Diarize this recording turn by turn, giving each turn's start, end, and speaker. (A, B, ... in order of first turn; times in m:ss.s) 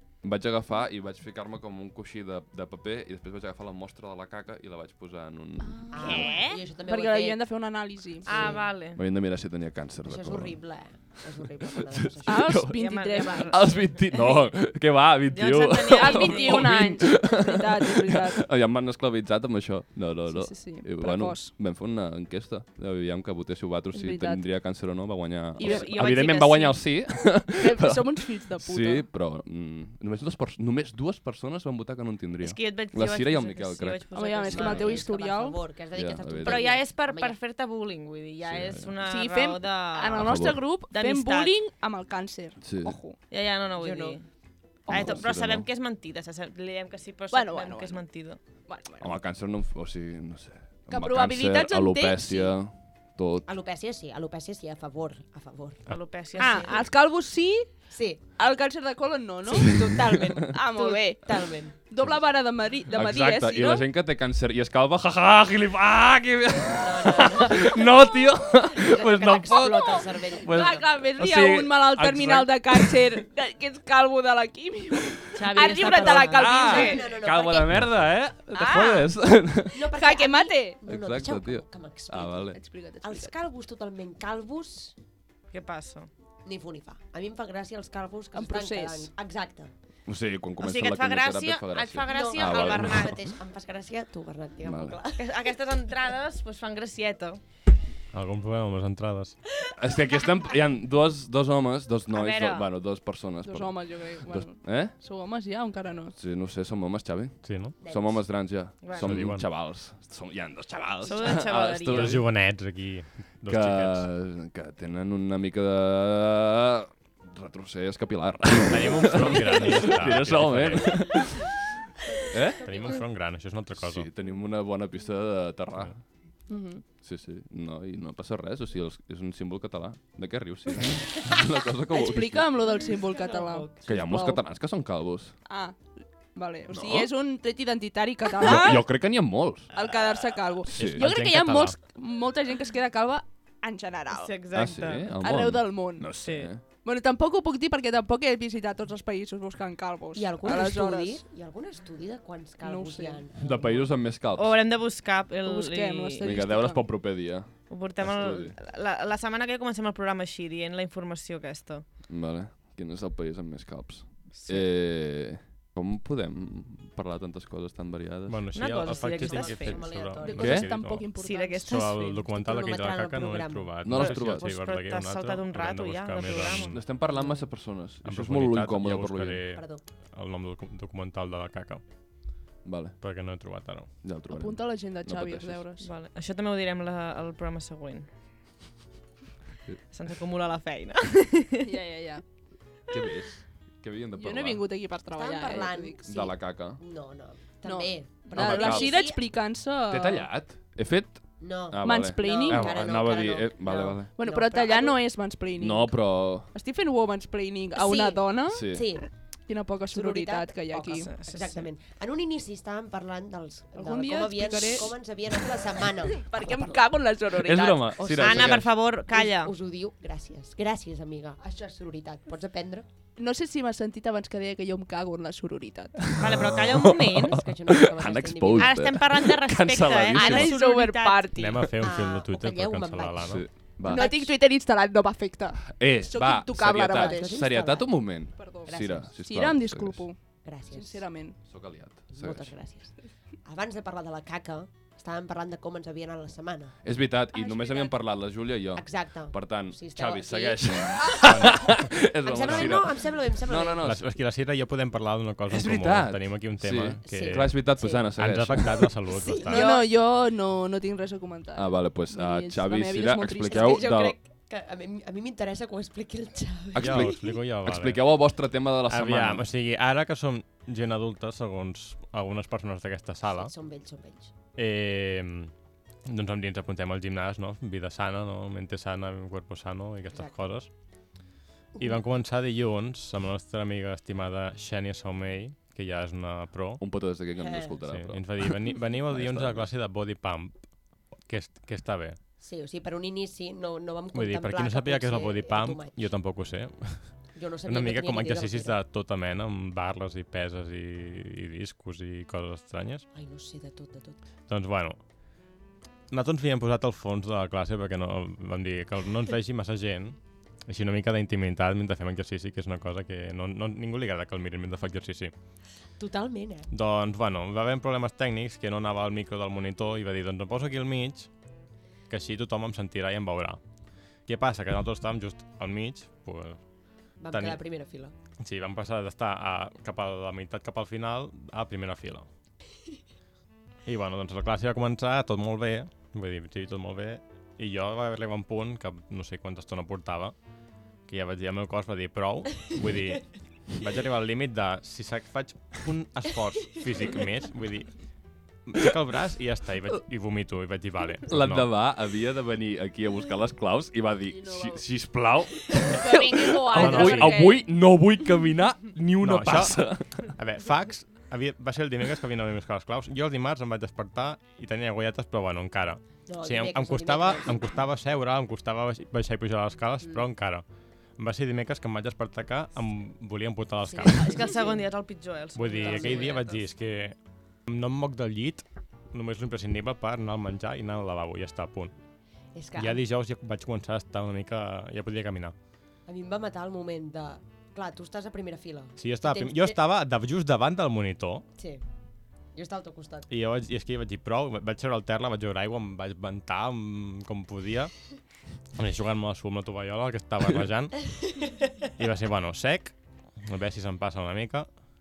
0:00.2-0:06.3 A
0:05.6-0:08.3 B
0:05.9-0:07.4 C
0:06.0-0:06.6 D
0:08.2-0:08.6 C
0:08.2-0:09.0 D
0:08.3-0:10.6 A
0:10.0-0:12.6 C
0:11.9-0:12.8 A
0:12.2-0:13.8 B
0:12.7-0:14.4 D
0:13.5-0:35.0 A
0:15.3-0:16.8 D
0:15.8-0:18.4 B
0:20.3-0:21.5 B
0:23.9-0:24.4 B
0:25.6-0:26.3 B
0:25.6-0:26.9 D
0:27.5-0:29.1 B
0:32.4-0:35.0 D
0:34.1-0:35.7 B
0:34.5-0:37.4 C
0:35.9-0:36.7 A
0:36.4-0:41.6 D
0:38.4-0:39.0 A
0:39.0-0:43.2 B
0:40.2-0:40.6 A
0:42.6-0:43.0 A
0:43.3-0:44.3 D
0:43.8-0:44.2 C
0:44.8-0:48.4 D
0:44.9-0:45.2 B
0:44.9-0:45.7 A
0:47.3-0:48.0 B
0:48.6-0:49.1 B
0:49.0-0:53.5 A
0:50.9-0:52.5 B
0:53.4-0:55.8 C
0:55.9-0:56.8 D
0:56.4-0:57.7 B
0:56.4-0:56.8 C
0:57.9-0:58.2 C
0:58.3-1:03.8 B
0:59.4-1:01.8 C
1:02.9-1:13.0 A
1:06.7-1:07.8 C
1:08.6-1:10.9 C
1:10.4-1:17.1 B
1:15.4-1:16.9 D
1:15.4-1:17.8 C
1:16.3-1:19.8 A
1:18.5-1:19.1 B
1:19.7-1:25.0 C
1:19.9-1:20.8 B
1:20.9-1:22.6 A
1:22.5-1:23.3 B
1:25.5-1:26.1 D
1:26.4-1:29.7 C
1:28.3-1:29.1 B
1:30.0-1:33.2 A
1:30.6-1:33.1 D
1:32.1-1:35.3 C
1:34.6-1:35.0 A
1:35.2-1:37.4 D
1:38.1-1:39.4 E
1:39.8-1:45.0 A
1:42.1-1:42.7 D
1:43.4-1:46.2 B
1:46.1-1:52.2 A
1:47.4-1:47.8 E
1:47.8-1:48.3 C
1:48.8-1:49.2 D
1:48.9-1:49.5 E
1:51.0-1:52.2 D
1:51.8-1:54.1 E
1:53.5-2:01.5 A
1:58.6-2:01.1 E
2:02.2-2:03.0 C
2:02.3-2:02.9 A
2:02.6-2:04.1 E
2:03.8-2:06.0 A
2:06.5-2:06.8 B
2:07.0-2:12.5 A
2:11.9-2:14.4 B
2:12.9-2:13.8 C
2:13.8-2:15.3 A
2:15.5-2:18.9 B
2:16.7-2:17.1 A
2:18.4-2:19.7 A
2:19.7-2:24.3 B
2:20.7-2:21.1 A
2:20.8-2:21.8 E
2:24.1-2:25.2 D
2:24.5-2:26.6 A
2:25.2-2:26.2 B
2:26.2-2:26.5 D
2:26.7-2:31.2 B
2:30.1-2:33.9 C
2:32.6-2:33.3 B
2:33.4-2:34.6 A
2:34.3-2:36.3 D
2:35.4-2:36.9 B
2:36.2-2:38.6 A
2:37.7-2:41.9 D
2:42.1-2:48.4 A
2:44.3-2:44.6 D
2:48.3-2:51.1 E
2:48.5-2:49.9 D
2:49.0-2:50.6 C
2:50.2-2:52.1 B
2:50.4-2:50.7 A
2:51.1-2:52.1 D
2:51.7-2:56.8 E
2:52.2-2:53.7 C
2:53.8-2:54.5 A
2:53.9-2:56.8 D
2:56.6-2:59.4 A
2:57.1-2:57.4 C
2:58.0-3:01.8 E
2:59.5-2:59.8 C
3:02.6-3:03.0 A
3:03.0-3:03.9 E
3:04.0-3:05.6 A
3:04.3-3:05.9 B
3:05.8-3:08.1 D
3:09.9-3:11.7 D
3:11.6-3:12.2 B
3:12.9-3:14.6 A
3:14.2-3:16.1 B
3:15.1-3:19.2 C
3:16.1-3:16.8 A
3:17.6-3:20.3 B
3:18.3-3:19.0 A
3:19.9-3:24.1 A
3:21.4-3:25.0 C
3:21.8-3:22.9 B
3:24.2-3:28.7 B
3:25.6-3:26.5 A
3:27.7-3:29.1 C
3:28.5-3:28.8 A
3:29.5-3:31.1 B
3:29.9-3:36.8 C
3:30.9-3:31.7 D
3:33.8-3:35.0 B
3:36.1-3:38.0 B
3:37.3-3:38.7 A
3:38.0-3:42.8 C
3:38.1-3:39.5 D
3:43.2-3:46.2 B
3:46.0-3:50.5 A
3:46.2-3:47.4 D
3:47.3-3:48.8 C
3:48.6-3:51.3 D
3:50.1-3:51.6 B
3:51.4-3:53.4 E
3:51.8-3:54.3 C
3:53.2-3:54.1 A
3:53.8-3:57.4 B
3:55.7-4:00.0 A
3:56.8-3:59.1 C
3:58.4-4:01.4 B
4:00.4-4:01.1 C
4:01.4-4:02.5 A
4:02.1-4:06.8 C
4:06.8-4:14.1 A
4:07.4-4:07.9 B
4:08.7-4:11.7 C
4:11.2-4:11.8 E
4:12.2-4:13.9 C
4:13.8-4:19.6 E
4:15.5-4:18.9 A
4:17.0-4:18.2 C
4:19.1-4:19.9 C
4:19.4-4:23.8 B
4:21.5-4:24.2 A
4:23.5-4:27.3 C
4:26.7-4:29.4 A
4:26.8-4:28.2 E
4:28.9-4:33.5 E
4:33.2-4:34.3 C
4:34.6-4:35.5 E
4:36.0-4:40.7 E
4:41.7-4:42.0 C
4:41.8-4:46.8 E
4:46.8-4:49.7 A
4:47.4-4:47.7 C
4:47.9-4:50.6 E
4:51.2-4:52.2 E
4:52.4-4:56.1 C
4:54.1-5:03.0 E
4:57.3-4:58.8 C
5:03.1-5:04.2 C
5:04.5-5:05.0 E
5:06.1-5:15.3 E
5:16.0-5:16.7 C
5:16.7-5:21.3 E
5:22.1-5:23.6 E
5:24.2-5:26.6 E
5:27.2-5:28.1 C
5:27.3-5:27.6 E
5:28.4-5:32.2 E
5:33.8-5:40.3 E
5:41.0-5:48.0 E
5:48.6-5:51.7 E
5:51.3-6:00.3 A
5:54.3-5:54.8 B
5:55.8-5:57.7 B
5:56.7-5:57.5 E
5:59.2-6:10.6 E
6:06.2-6:07.6 C
6:11.2-6:14.3 E
6:13.8-6:14.9 C
6:14.2-6:16.6 D
6:15.6-6:17.2 E
6:15.8-6:16.4 C
6:17.7-6:21.9 E
6:22.5-6:23.0 C
6:22.8-6:25.5 E
6:26.0-6:29.8 C
6:29.0-6:31.4 E
6:31.6-6:31.8 C
6:32.5-6:33.3 C
6:33.3-6:38.0 E
6:38.7-6:41.3 E
6:41.4-6:41.7 C
6:42.0-6:44.8 E